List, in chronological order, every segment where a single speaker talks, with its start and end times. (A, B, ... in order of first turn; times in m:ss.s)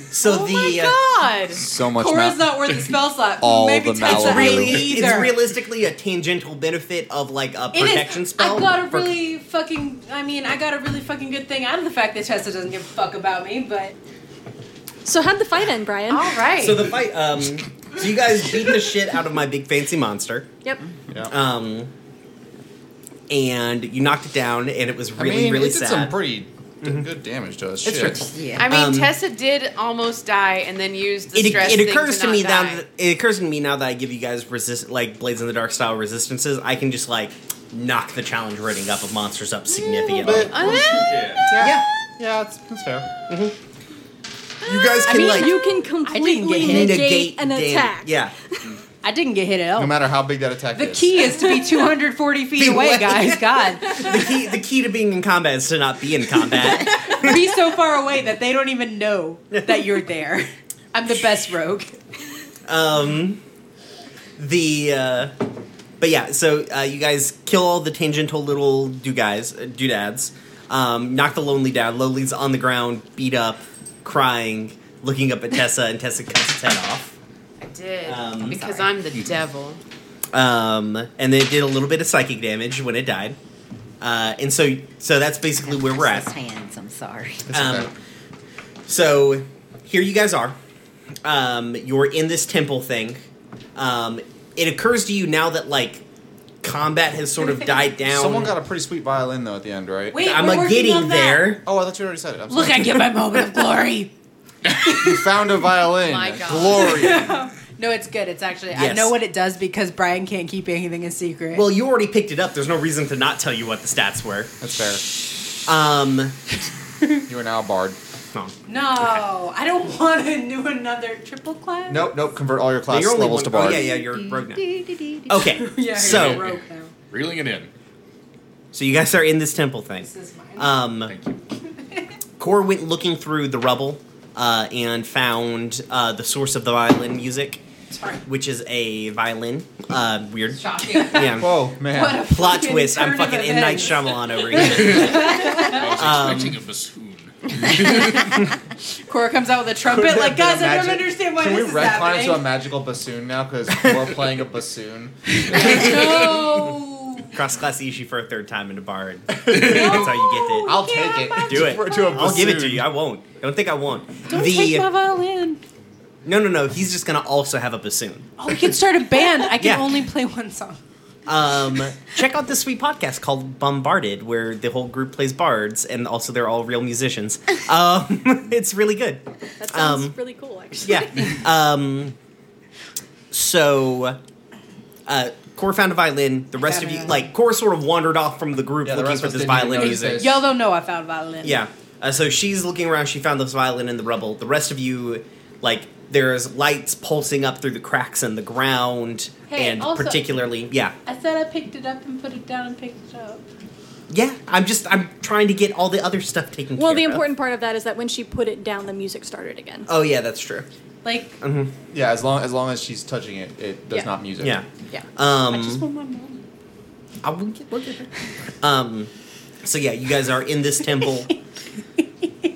0:00.1-0:01.0 A
0:00.2-0:01.6 B
0:01.5-0:02.5 C
0:01.9-0:05.4 D
0:03.4-0:04.9 C
0:04.0-0:09.1 A
0:07.7-0:13.9 D
0:15.0-0:16.4 E
0:16.1-0:16.9 B
0:16.6-0:20.5 A
0:21.1-0:21.3 C
0:21.3-0:21.9 A
0:23.3-0:26.1 A
0:25.2-0:28.2 C
0:26.8-0:27.1 A
0:27.8-0:29.1 A
0:27.9-0:28.7 F
0:28.6-0:32.8 B
0:31.3-0:40.7 A
0:40.0-0:43.1 C
0:40.5-0:41.1 B
0:40.8-0:41.5 G
0:41.6-0:41.9 A
0:43.3-0:43.5 A
0:44.6-0:45.6 A
0:44.7-0:48.7 E
0:45.0-0:47.0 D
0:46.6-0:48.3 A
0:49.0-0:50.0 D
0:49.8-0:51.3 C
0:50.7-0:54.2 D
0:52.6-0:57.4 A
0:56.5-1:01.9 D
0:59.5-0:59.8 A
1:02.7-1:03.4 A
1:04.4-1:05.3 A
1:06.0-1:17.2 A
1:17.6-1:19.8 B
1:18.0-1:18.7 A
1:20.3-1:23.4 A
1:24.0-1:26.3 A
1:25.6-1:27.5 F
1:27.5-1:27.9 C
1:27.5-1:27.9 A
1:28.9-1:30.6 A
1:31.2-1:36.0 A
1:36.6-1:38.5 A
1:37.4-1:37.9 D
1:38.0-1:40.4 C
1:40.1-1:41.6 D
1:40.2-1:41.6 A
1:41.6-1:43.0 C
1:42.5-1:44.1 D
1:44.8-1:47.3 C
1:46.0-1:47.0 B
1:46.7-1:51.7 D
1:48.7-1:49.2 A
1:51.5-1:54.5 A
1:54.6-1:55.0 C
1:55.6-1:56.4 A
1:57.2-1:58.0 C
1:58.3-1:59.2 A
1:58.6-2:02.1 D
2:01.9-2:03.8 C
2:02.9-2:06.4 A
2:03.6-2:05.2 F
2:05.3-2:06.9 D
2:06.0-2:07.7 G
2:08.7-2:11.1 A
2:10.0-2:10.8 D
2:11.0-2:11.4 G
2:12.4-2:17.6 A
2:17.9-2:18.2 D
2:18.2-2:21.5 A
2:20.6-2:21.1 B
2:20.7-2:26.0 D
2:21.3-2:22.3 C
2:22.3-2:26.6 A
2:24.6-2:28.4 G
2:27.6-2:28.3 D
2:29.0-2:32.5 D
2:29.8-2:36.3 C
2:35.4-2:37.4 D
2:35.6-2:36.4 A
2:37.3-2:40.8 A
2:39.5-2:42.4 D
2:40.6-2:42.9 C
2:41.4-2:44.9 A
2:44.3-2:45.6 D
2:46.2-2:48.3 A
2:48.4-2:50.8 D
2:49.6-2:49.9 A
2:51.3-3:00.2 A
2:59.6-3:01.4 E
3:00.8-3:02.1 A
3:03.3-3:04.2 A
3:05.1-3:10.3 A
3:06.6-3:07.2 D
3:08.8-3:10.4 C
3:09.6-3:11.6 D
3:11.4-3:20.9 A
3:19.5-3:20.2 D
3:21.0-3:23.4 D
3:24.1-3:27.2 A
3:26.8-3:29.9 E
3:29.9-3:30.7 A
3:31.0-3:31.4 D
3:31.4-3:31.7 A
3:31.9-3:34.6 C
3:34.4-3:35.8 A
3:35.5-3:36.4 D
3:37.2-3:39.1 A
3:39.6-3:41.3 A